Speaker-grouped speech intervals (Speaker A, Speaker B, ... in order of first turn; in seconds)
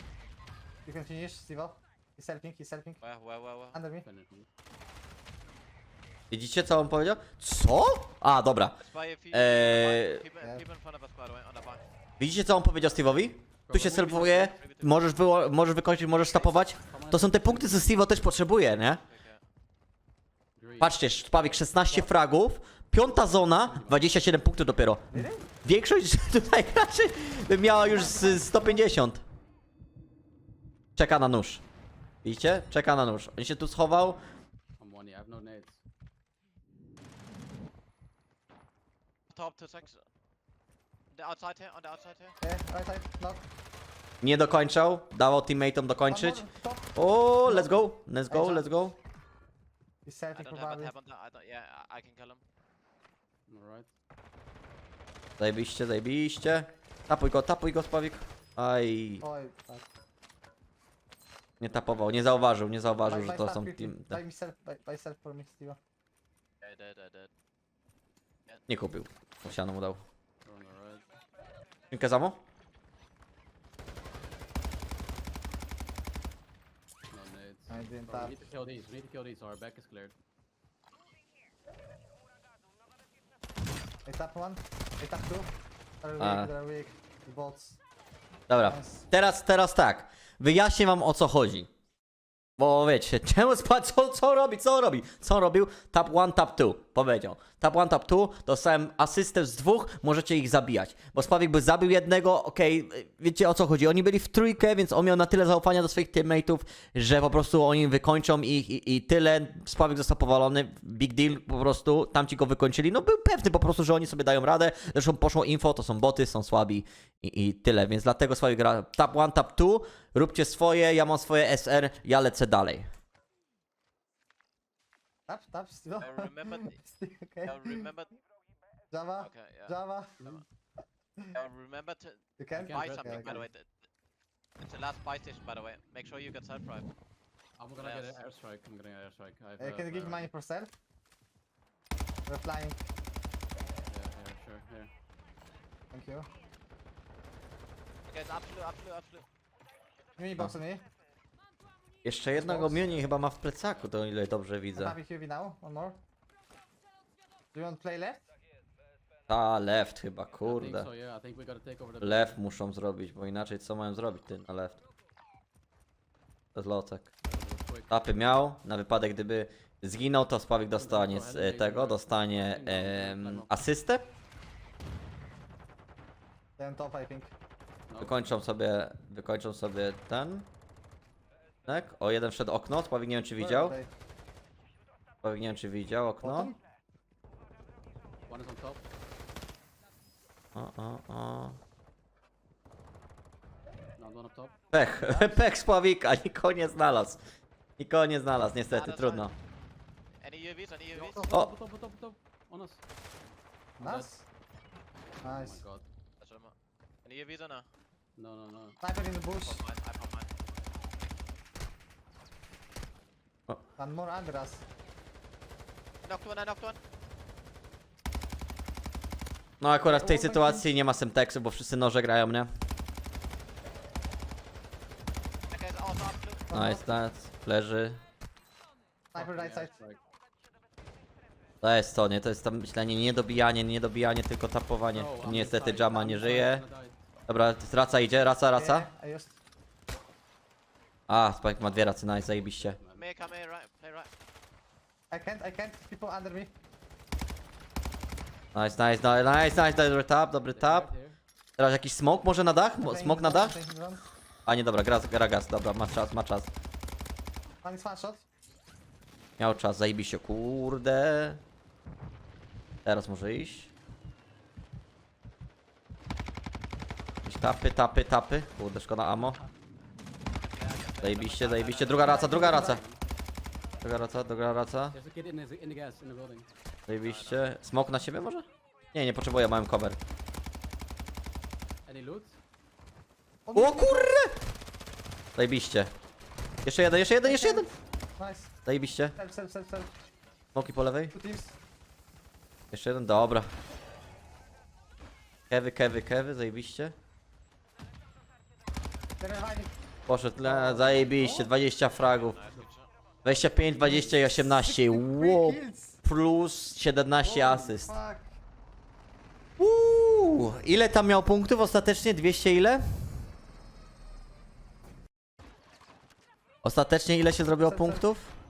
Speaker A: 0.8-3.0, 3.7-4.0, 25.1-25.4, 27.7-28.9, 42.4-43.4, 46.1-48.8, 50.0-50.9, 59.2-59.9, 63.0-65.8, 77.7-78.3, 84.0-87.8, 88.7-89.1, 125.3-127.9, 128.9-130.2, 132.4-133.5, 139.6-140.7, 142.2-142.9, 145.9-146.3, 150.2-150.8, 152.3-153.1, 154.7-156.0, 157.5-158.3, 176.6-177.3, 183.4-183.9, 186.2-186.6, 194.9-195.4, 198.7-199.3, 203.8-204.2, 205.2-205.6, 208.8-209.6, 213.8-214.6, 219.8-220.7, 226.5-227.0, 229.1-229.7, 238.5-239.3, 245.1-246.5, 252.8-254.0, 257.6-258.2, 272.0-272.8, 283.4-284.1, 287.2-288.5, 289.1-289.9, 291.1-291.6, 299.2-299.7, 300.4-301.5, 303.8-306.0, 307.2-308.4, 317.6-318.1
Speaker B: 3.0-3.8, 8.8-11.8, 14.1-15.1, 18.7-19.4, 39.3-40.0, 41.1-42.4, 50.4-52.4, 66.6-67.3, 126.0-126.8, 127.4-128.1, 129.2-130.4, 131.3-133.7, 134.6-136.9, 137.8-138.2, 148.1-149.2, 200.2-201.3, 206.2-206.5, 207.0-207.7, 209.3-210.3, 216.0-216.8, 225.5-226.5, 242.9-244.1, 270.4-272.2, 277.0-277.5, 301.7-302.9
Speaker C: 4.0-4.5, 13.7-14.6, 16.3-18.2, 20.6-21.0, 23.4-24.1, 34.8-35.8, 53.5-53.9, 70.4-71.0, 77.1-80.1, 132.5-133.4, 137.6-140.3, 143.9-144.9, 160.4-162.4, 167.2-168.0, 170.8-173.7, 177.9-178.3, 188.3-188.8, 194.0-194.5, 200.9-202.8, 203.8-204.1, 205.2-205.8, 208.2-208.8, 229.1-230.0, 234.9-237.0, 241.8-243.1, 250.5-251.2, 271.9-273.0, 274.9-276.5, 281.9-282.4, 303.4-304.3
Speaker D: 6.3-8.8, 9.3-10.2, 12.2-19.0, 20.8-29.2, 30.9-31.6, 32.2-34.2, 44.2-46.4, 46.9-49.0, 55.4-59.2, 61.6-64.2, 68.7-70.0, 71.9-72.4, 86.2-86.5, 88.5-91.7, 92.6-122.9, 152.0-154.9, 159.3-160.9, 162.0-164.8, 166.5-167.1, 167.9-174.0, 178.0-180.5, 181.7-183.8, 185.2-186.5, 190.5-191.6, 194.7-197.2, 197.8-199.3, 219.6-222.5, 226.5-228.0, 231.6-236.6, 237.3-238.9, 241.1-242.8, 248.5-250.9, 251.6-253.5, 254.4-256.5, 259.4-261.4, 262.8-263.7, 267.2-269.4, 271.0-272.8, 273.8-274.9, 276.9-280.0, 283.5-284.3, 285.4-285.9, 286.6-287.7, 288.6-289.1, 290.5-291.1, 292.7-293.5, 295.5-296.9, 300.1-302.4, 303.2-307.9, 309.6-312.8, 316.6-318.3